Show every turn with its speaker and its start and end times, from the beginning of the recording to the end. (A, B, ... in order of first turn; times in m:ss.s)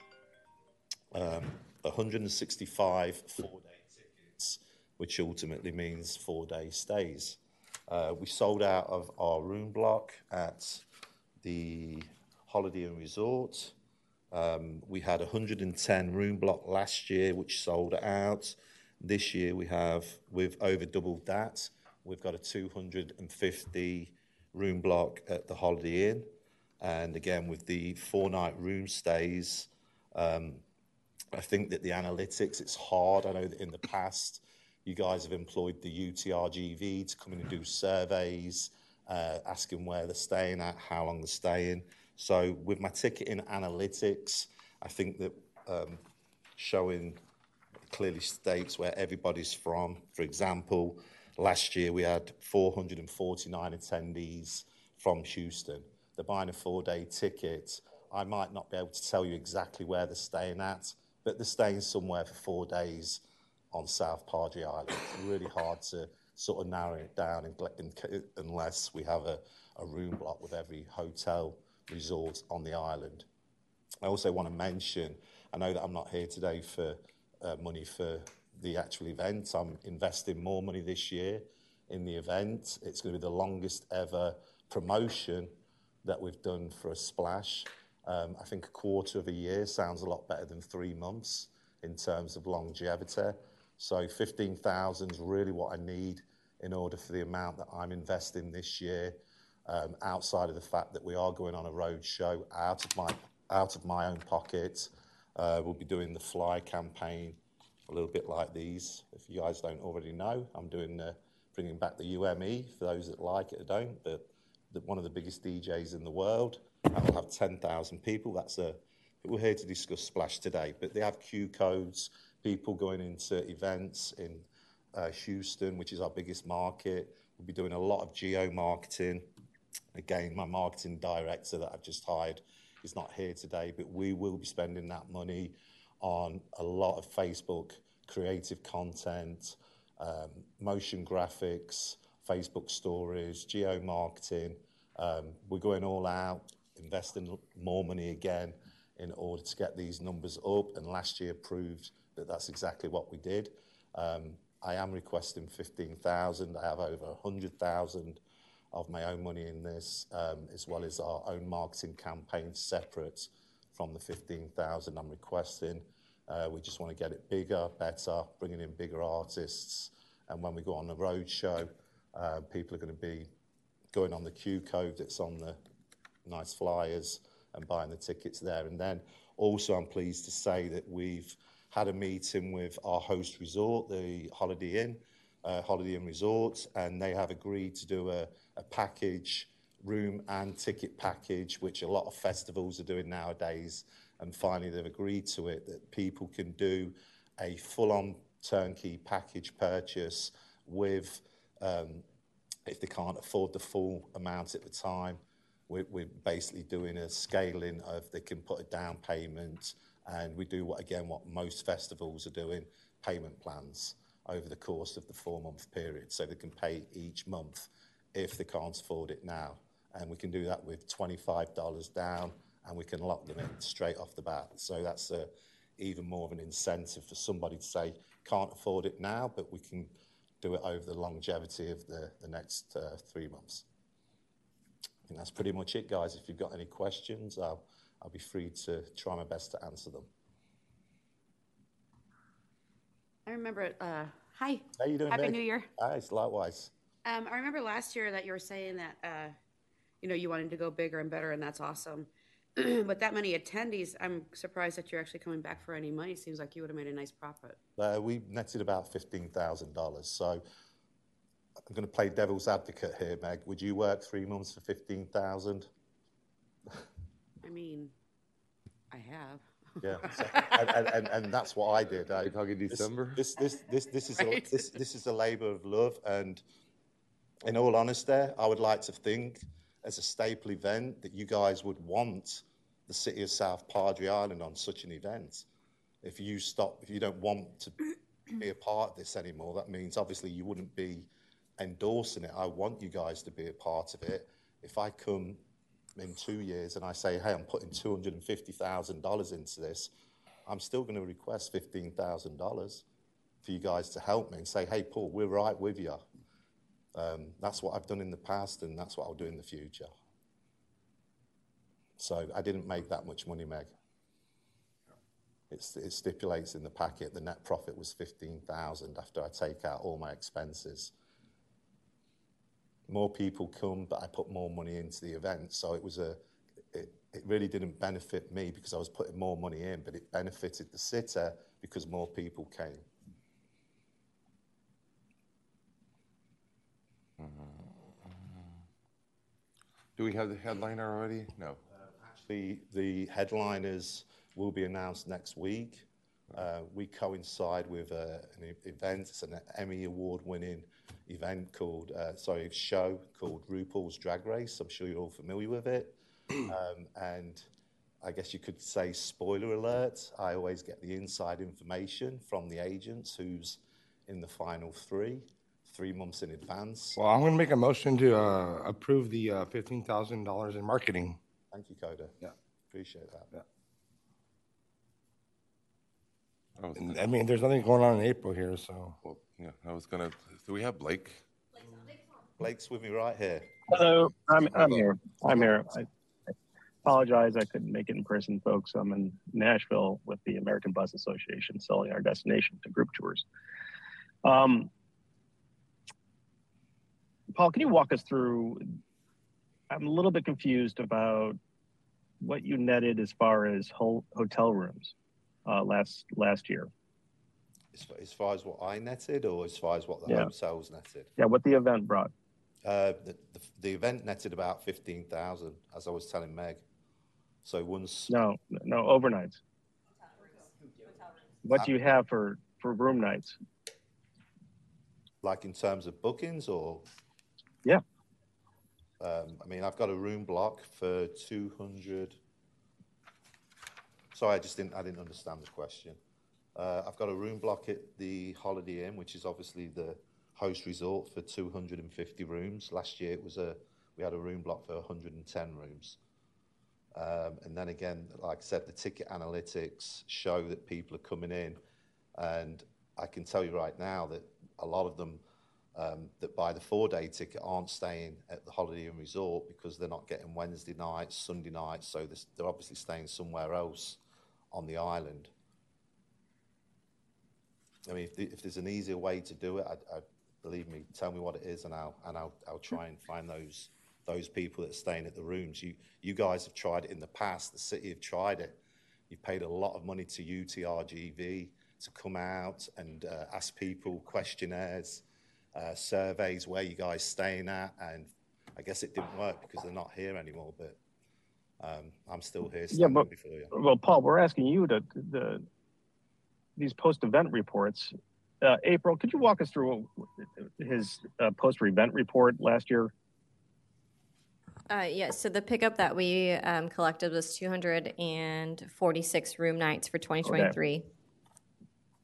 0:01.1-0:10.8 A
0:11.4-0:13.7 A
0:14.3-0:26.3 A
0:26.8-0:30.6 A
0:31.3-0:46.0 A
0:46.6-0:47.2 A
0:47.9-1:03.2 A
1:03.7-1:13.2 A
1:14.0-1:25.5 A
1:26.0-2:09.2 A
2:09.9-2:38.2 A
2:38.7-2:53.3 A
2:53.9-2:55.6 A
2:56.2-3:22.0 A
3:22.6-3:53.6 A
3:55.1-4:00.1 A
4:03.2-4:05.7 B
4:04.8-4:06.7 A
4:07.0-4:09.3 B
4:10.0-4:17.6 B
4:17.8-4:20.4 A
4:21.7-4:25.7 A
4:27.4-4:27.9 B
4:28.9-4:30.9 B
4:29.8-4:36.4 A
4:32.2-4:33.2 C
4:34.2-4:34.5 B
4:37.4-4:45.4 A
4:46.0-4:51.1 A
4:51.6-4:55.4 A
4:56.0-4:59.9 A
5:00.4-5:02.8 A
5:03.4-5:06.0 A
5:06.9-5:09.9 A
5:12.0-5:13.7 A
5:15.5-5:20.9 A
5:22.9-5:26.2 A
5:26.7-5:32.8 A
5:37.2-5:38.5 C
5:40.0-5:41.6 C
5:41.9-5:57.4 A
5:58.0-6:07.0 A
6:07.0-6:11.2 D
6:11.5-6:12.2 A
6:12.7-6:13.3 A
6:16.6-6:17.0 C
6:16.8-6:19.0 D
6:19.0-6:21.2 C
6:22.4-6:23.6 A
6:23.7-6:25.8 E
6:26.8-6:33.2 E
6:34.2-6:34.7 E
6:37.3-6:38.6 E
6:39.7-6:41.4 E
6:42.2-6:44.9 E
6:45.4-6:46.7 E
6:47.7-6:51.1 A
6:51.2-6:52.1 E
6:52.6-6:56.6 A
6:57.4-6:58.2 A
6:58.1-6:59.4 E
7:01.4-7:03.3 E
7:05.2-7:06.8 A
7:09.0-7:12.2 A
7:14.1-7:16.0 A
7:16.6-7:26.0 A
7:26.9-7:31.6 A
7:32.2-7:35.2 A
7:35.8-7:44.0 A
7:44.5-7:45.3 A
7:47.8-7:58.6 A
7:59.1-8:05.0 A
8:05.5-8:10.8 A
8:11.6-8:13.5 A
8:12.7-8:15.4 E
8:16.6-8:20.0 E
8:20.6-8:22.9 E
8:24.7-8:30.8 F
8:30.2-8:30.5 E